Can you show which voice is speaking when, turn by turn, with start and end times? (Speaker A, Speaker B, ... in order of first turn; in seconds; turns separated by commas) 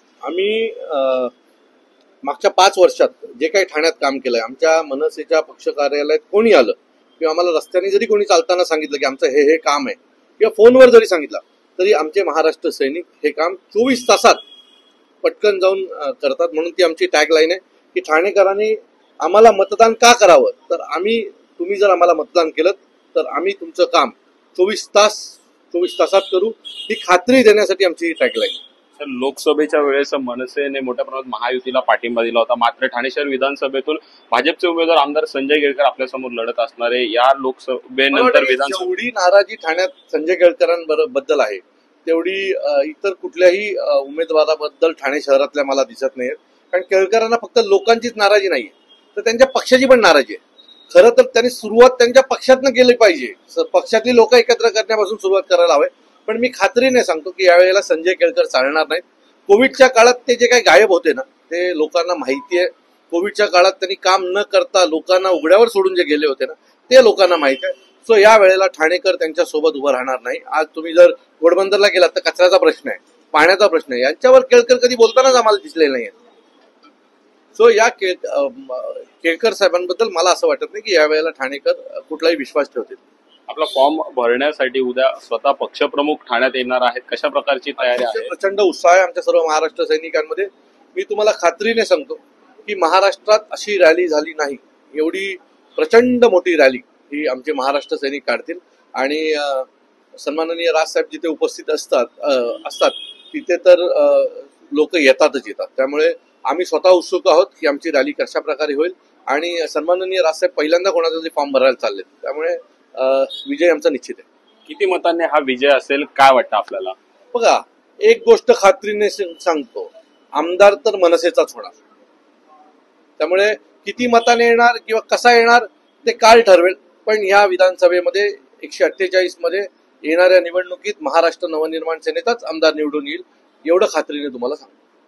Speaker A: 0.2-1.3, Speaker A: 2.2-14.4, Speaker A: 15.2-28.6, Speaker B: 29.0-38.9, Speaker A: 38.1-76.1, Speaker A: 77.5-83.0, Speaker B: 83.5-88.3, Speaker A: 87.8-114.2, Speaker B: 114.7-117.0, Speaker A: 117.3-121.8, Speaker A: 123.2-134.7